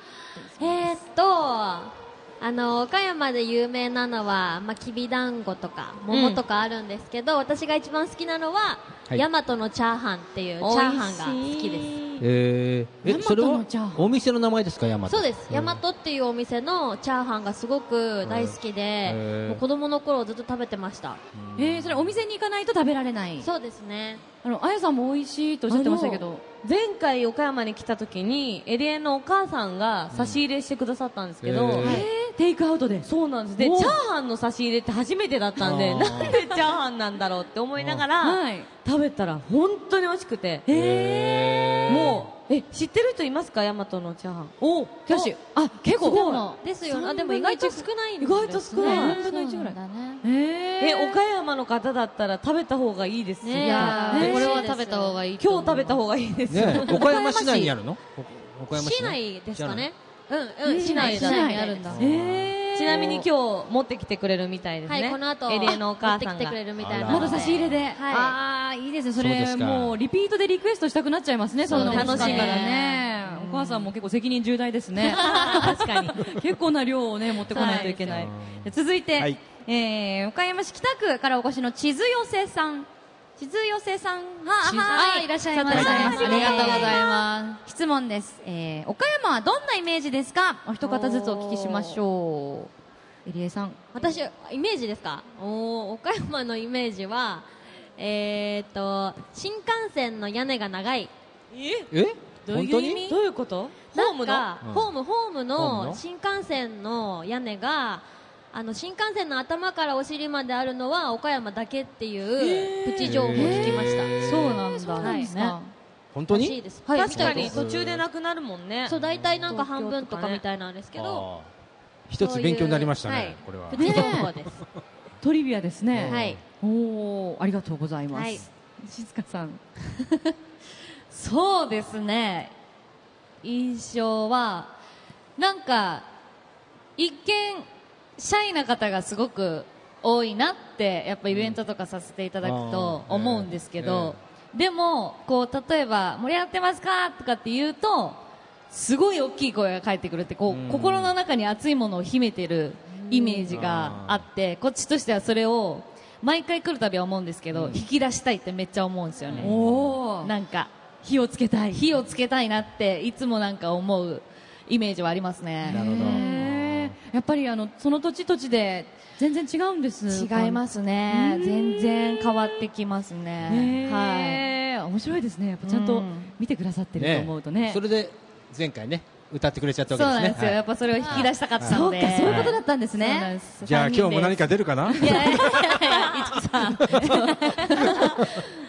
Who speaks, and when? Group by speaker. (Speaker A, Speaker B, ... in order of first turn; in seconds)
Speaker A: 0.6-12.0, 15.1-21.2, 23.4-24.2, 46.0-49.2, 53.4-55.2, 56.8-57.7, 58.7-62.0, 64.9-68.4, 71.7-72.7, 75.2-75.7, 77.6-77.9, 84.9-87.0, 90.8-92.0, 93.9-101.1, 103.9-114.2, 115.0-115.3, 116.3-117.6, 118.9-121.3, 122.2-124.6, 126.0-126.4, 128.1-128.4
Speaker B: 0.6-0.9, 13.0-14.0, 21.6-23.5, 24.4-26.4, 31.8-34.0, 38.2-38.7, 40.7-41.9, 44.6-47.8, 48.7-51.2, 53.7-54.5, 60.6-63.2, 67.0-87.0, 87.6-92.7, 93.2-93.8, 112.4-115.7, 123.7-124.3, 125.2-129.6, 153.0-153.6, 159.4-160.3, 161.0-161.8, 165.7-172.6, 173.5-177.8, 181.6-183.3, 186.9-188.0
Speaker C: 6.1-6.4, 10.6-12.2, 25.7-32.0, 33.0-40.6, 41.9-44.5, 47.1-47.6, 48.2-49.2, 50.8-54.3, 55.4-57.5, 60.7-61.8, 62.7-66.6, 71.7-72.8, 75.1-76.2, 77.5-78.0, 101.5-101.9, 102.5-104.5, 116.9-119.0, 119.5-120.4, 185.0-186.3, 187.7-188.4
Speaker D: 12.2-15.8, 18.2-19.6, 21.4-22.2, 30.1-30.4, 31.4-32.0, 35.6-36.4, 37.8-38.0, 40.7-42.3, 54.2-54.4, 56.5-59.9, 61.9-62.5, 66.8-67.8, 69.2-70.0, 71.6-72.4, 78.1-79.4, 85.7-86.0, 101.9-103.1, 104.6-104.9, 105.5-106.0, 113.0-114.6, 116.1-118.0, 119.0-119.5, 121.0-121.5, 122.1-124.4, 125.9-126.4, 141.3-141.6, 142.4-144.2, 150.5-151.2, 153.5-154.2, 157.5-157.8, 159.3-159.9, 165.7-166.9, 176.9-182.6, 183.6-185.5
Speaker E: 48.7-50.2, 53.6-56.0, 71.9-73.7, 75.2-75.6, 84.6-87.6, 114.2-115.6, 129.9-130.3, 131.1-132.5, 133.4-134.7, 135.4-136.1, 137.0-137.7, 138.2-159.6, 160.2-160.7, 161.7-166.3, 170.1-174.4, 175.6-176.3, 179.9-188.3